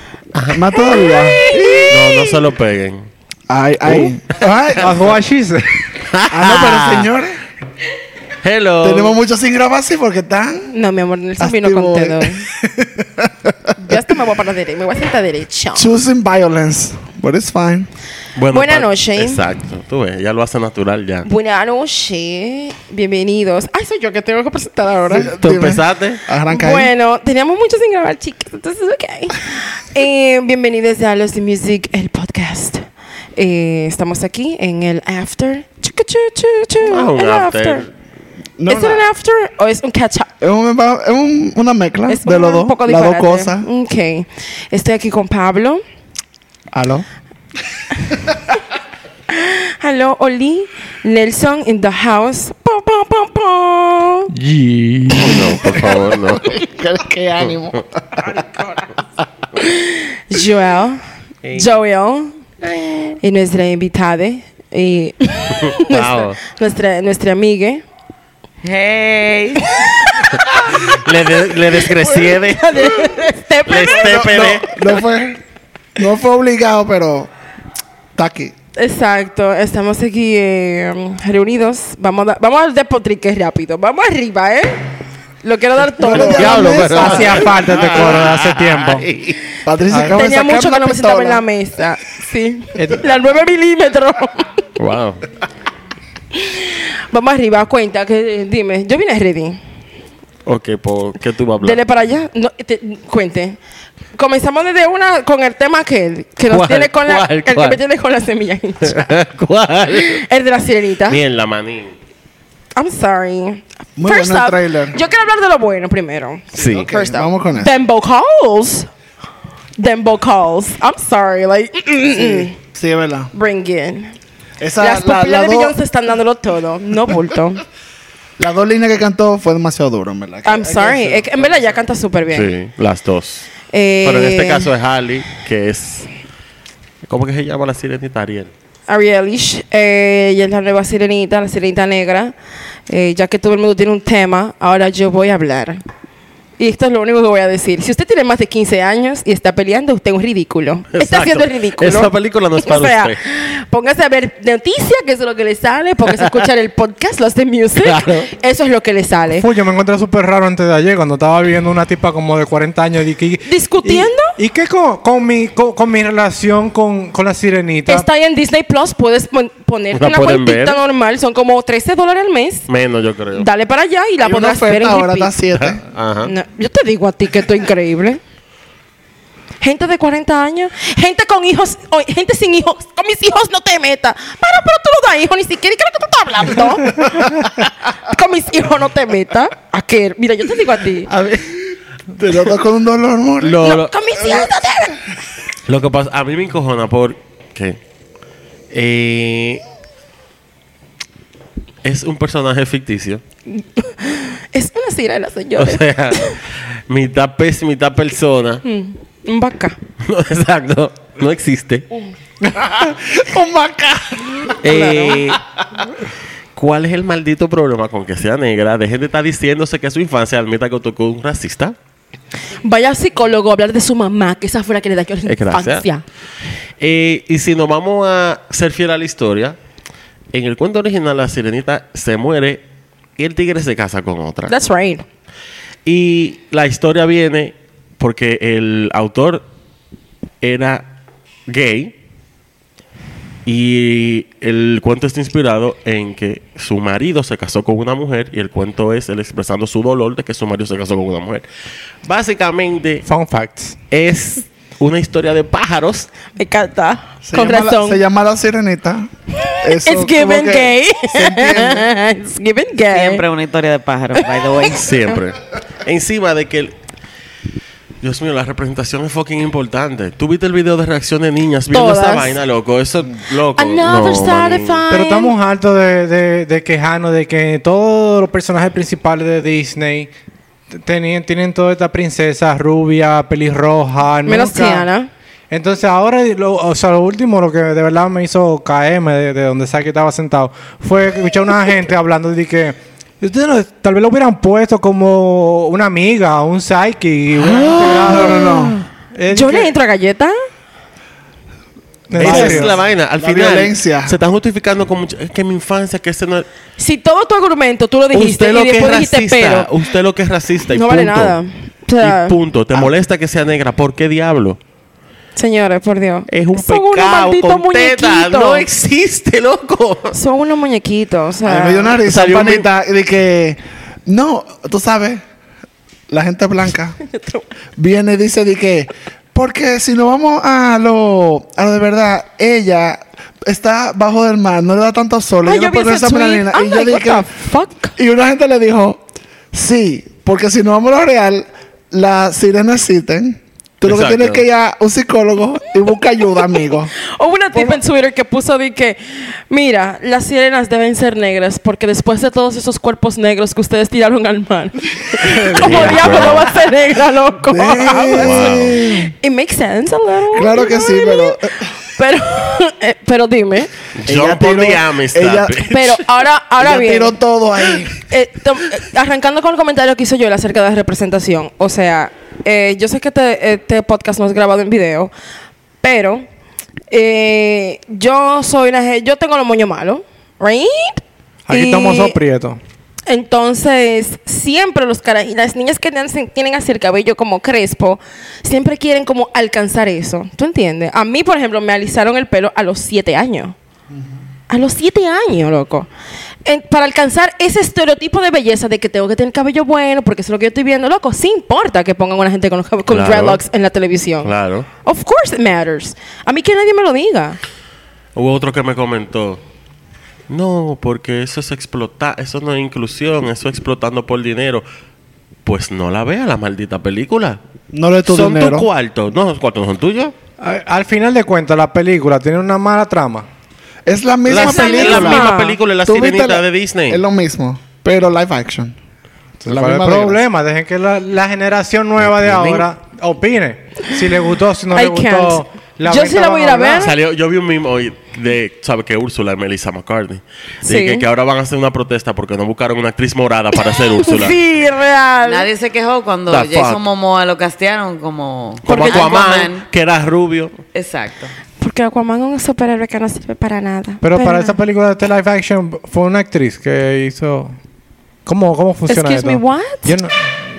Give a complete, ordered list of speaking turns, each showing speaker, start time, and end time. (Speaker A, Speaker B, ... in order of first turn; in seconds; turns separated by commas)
Speaker A: 0.3-0.6, Speaker B: 0.5-1.5, Speaker C: 0.7-2.1, Speaker A: 1.9-3.1, Speaker B: 3.5-5.1, Speaker D: 4.8-5.7, Speaker A: 6.0-7.1, Speaker B: 6.3-7.3, Speaker A: 8.4-9.2, Speaker B: 8.8-10.7, Speaker C: 10.7-12.5, Speaker B: 11.4-14.0, Speaker C: 13.8-15.9, Speaker B: 15.7-17.9, Speaker A: 18.4-21.3, Speaker C: 18.5-19.4, Speaker C: 21.2-25.3, Speaker B: 25.1-26.9, Speaker A: 25.4-26.2, Speaker C: 26.5-37.9, Speaker A: 36.8-37.9, Speaker B: 38.6-39.1, Speaker C: 38.7-40.3, Speaker B: 40.4-43.7, Speaker C: 42.1-45.8, Speaker B: 46.7-47.0, Speaker C: 49.3-54.3, Speaker D: 54.3-55.7, Speaker A: 55.1-56.6, Speaker B: 55.8-58.3, Speaker C: 59.6-61.0, Speaker A: 61.4-61.7, Speaker C: 61.5-62.4, Speaker C: 63.0-67.8, Speaker A: 65.7-66.4, Speaker E: 68.6-69.9, Speaker C: 69.8-70.5, Speaker A: 70.7-73.1, Speaker C: 71.9-74.4, Speaker A: 73.7-75.0, Speaker B: 73.8-75.4, Speaker B: 76.0-77.3, Speaker B: 78.2-78.5, Speaker C: 78.8-84.8, Speaker C: 85.4-87.5, Speaker B: 86.0-87.4, Speaker A: 86.1-89.4, Speaker D: 86.8-89.1, Speaker B: 89.6-91.4, Speaker D: 89.9-90.2, Speaker C: 90.1-94.6, Speaker D: 92.7-93.0, Speaker A: 94.8-95.2, Speaker C: 96.3-99.6, Speaker A: 100.4-101.8, Speaker C: 101.6-103.6, Speaker C: 104.2-109.1, Speaker A: 106.5-107.8, Speaker A: 108.8-110.2, Speaker C: 109.9-111.2, Speaker A: 111.1-111.9, Speaker C: 112.7-118.9, Speaker B: 114.0-115.0, Speaker A: 116.5-116.8, Speaker B: 116.6-117.7, Speaker C: 119.8-122.5, Speaker B: 122.1-123.3, Speaker C: 123.3-124.1, Speaker B: 124.6-125.8, Speaker C: 124.8-127.6, Speaker B: 128.4-131.7, Speaker C: 130.4-132.5, Speaker A: 132.3-133.5, Speaker C: 133.7-134.7, Speaker A: 134.0-136.1, Speaker A: 137.0-138.5, Speaker C: 138.9-142.3, Speaker C: 142.9-145.8, Speaker C: 146.6-159.4, Speaker A: 150.9-153.2, Speaker A: 157.8-158.3, Speaker D: 159.3-168.1, Speaker C: 163.4-164.3, Speaker C: 167.9-172.6, Speaker A: 169.9-170.8, Speaker A: 172.7-173.4, Speaker C: 173.3-175.3, Speaker B: 174.2-175.8, Speaker A: 175.6-176.3, Speaker C: 176.2-178.2, Speaker C: 179.6-187.5, Speaker C: 188.0-191.1, Speaker A: 191.1-191.6, Speaker B: 192.2-193.6, Speaker A: 193.4-193.9, Speaker C: 193.6-195.0, Speaker A: 195.7-197.8, Speaker A: 198.7-199.6, Speaker A: 201.8-203.2, Speaker C: 203.5-206.4, Speaker A: 205.6-208.6, Speaker C: 208.6-209.8, Speaker A: 210.0-211.8, Speaker B: 212.5-214.6, Speaker C: 214.6-215.3, Speaker A: 214.6-215.4, Speaker A: 216.6-221.7, Speaker C: 222.6-226.0, Speaker A: 225.3-225.8, Speaker A: 226.8-229.6, Speaker A: 230.3-232.6, Speaker A: 233.2-234.5, Speaker C: 234.5-235.0, Speaker A: 235.8-239.4, Speaker A: 240.4-240.8, Speaker A: 241.5-241.9, Speaker A: 243.4-251.4, Speaker A: 252.0-253.0, Speaker D: 253.0-253.8, Speaker A: 253.9-256.1, Speaker C: 256.4-258.0, Speaker B: 257.2-259.1, Speaker C: 259.4-263.2, Speaker B: 259.6-261.8, Speaker E: 262.9-264.9, Speaker C: 264.1-264.7, Speaker A: 264.7-266.7, Speaker A: 268.0-274.8, Speaker C: 271.7-272.4, Speaker C: 273.6-275.3, Speaker D: 274.9-280.1, Speaker D: 280.8-284.9, Speaker C: 284.2-285.1, Speaker D: 285.5-299.7, Speaker B: 297.4-298.7, Speaker C: 299.3-300.4, Speaker D: 302.1-302.7, Speaker A: 302.2-306.5, Speaker B: 302.2-304.1, Speaker C: 306.8-309.7, Speaker A: 308.1-311.4, Speaker C: 310.7-312.3, Speaker A: 312.0-314.6, Speaker C: 315.4-318.6, Speaker A: 316.3-320.2, Speaker C: 320.1-322.0, Speaker B: 321.4-325.2, Speaker A: 322.0-322.6, Speaker B: 326.1-327.0, Speaker C: 327.0-327.4, Speaker B: 327.8-337.3, Speaker C: 335.4-337.9, Speaker B: 338.0-339.0, Speaker B: 339.5-346.9, Speaker A: 343.9-344.4, Speaker C: 347.0-361.4, Speaker B: 355.2-356.1, Speaker A: 355.5-356.5, Speaker B: 357.5-359.1, Speaker A: 358.1-358.9, Speaker B: 360.3-361.6, Speaker C: 361.9-363.7, Speaker A: 364.0-366.0, Speaker B: 364.1-365.6, Speaker C: 365.7-367.2, Speaker B: 366.6-368.0, Speaker C: 368.1-375.1, Speaker C: 375.8-376.2, Speaker C: 376.9-382.2, Speaker D: 381.5-382.6, Speaker C: 383.1-393.5, Speaker C: 394.5-395.9, Speaker C: 396.4-404.3, Speaker A: 402.9-403.4, Speaker A: 404.2-404.7, Speaker C: 404.8-407.4, Speaker A: 408.1-409.4, Speaker A: 410.3-414.6, Speaker A: 415.4-417.4, Speaker B: 417.7-418.7, Speaker A: 418.1-420.1, Speaker D: 420.4-423.2, Speaker B: 423.9-425.3, Speaker A: 424.3-427.0, Speaker C: 424.3-425.6, Speaker B: 425.9-428.7, Speaker D: 429.4-436.9, Speaker B: 429.4-430.2, Speaker A: 432.0-432.6, Speaker C: 434.7-436.9, Speaker A: 436.8-444.4, Speaker C: 440.6-441.0, Speaker C: 443.8-445.5, Speaker E: 445.2-449.6, Speaker A: 446.3-446.8, Speaker C: 448.6-449.1, Speaker A: 448.6-450.6, Speaker E: 450.7-451.3, Speaker C: 451.6-454.6, Speaker D: 454.0-457.5, Speaker D: 458.2-460.4, Speaker C: 458.9-459.9